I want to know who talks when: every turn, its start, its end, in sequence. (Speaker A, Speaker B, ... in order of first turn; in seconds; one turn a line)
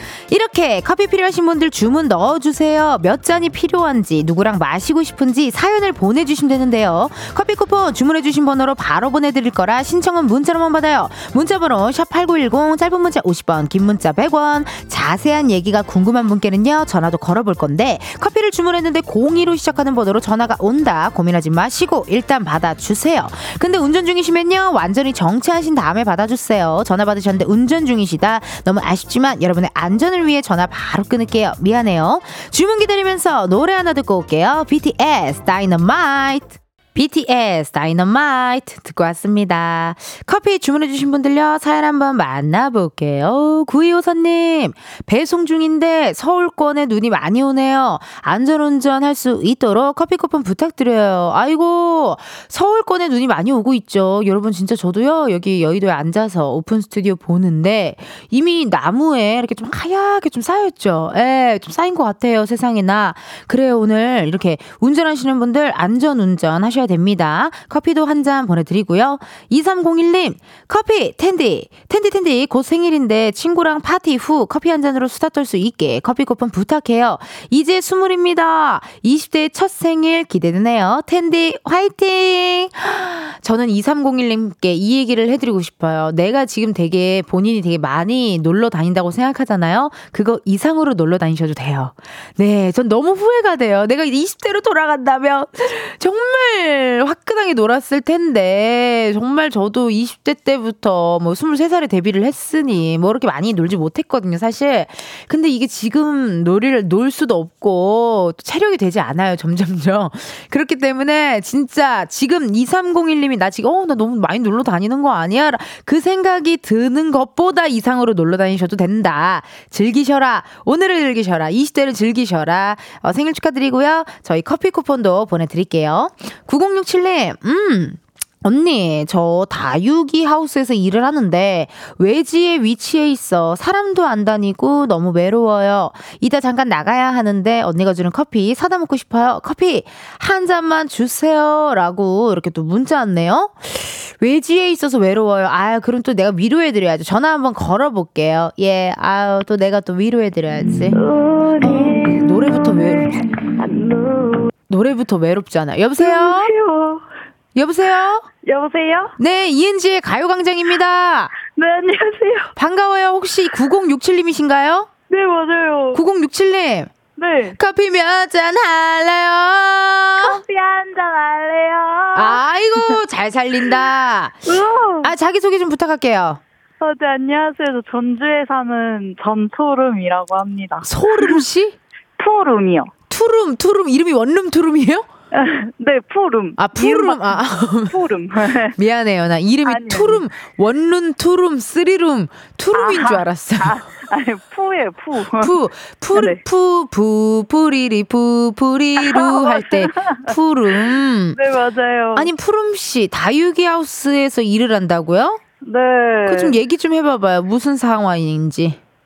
Speaker A: 0.3-151.0
Speaker B: 150.9-154.5
Speaker A: 151.6-153.3
Speaker A: 154.7-156.5
Speaker B: 156.0-157.1
Speaker A: 157.6-158.3
Speaker B: 158.4-159.2
Speaker A: 159.2-161.3
Speaker B: 161.4-162.5
Speaker A: 162.6-164.9
Speaker B: 165.1-166.0
Speaker A: 165.9-166.9
Speaker B: 167.2-167.6
Speaker A: 167.6-170.4
Speaker B: 170.2-173.0
Speaker A: 172.2-174.4
Speaker B: 174.5-175.1
Speaker A: 175.0-176.4
Speaker B: 176.8-181.4
Speaker A: 180.8-181.8
Speaker B: 182.2-182.9
Speaker A: 183.1-185.1
Speaker B: 185.3-188.8
Speaker A: 186.6-187.9
Speaker A: 188.8-193.8
Speaker B: 189.7-190.2
Speaker B: 192.8-195.5
Speaker A: 195.4-201.4
Speaker B: 196.1-196.4
Speaker B: 199.0-202.3
Speaker A: 202.2-205.4
Speaker B: 205.6-206.6
Speaker A: 206.3-208.8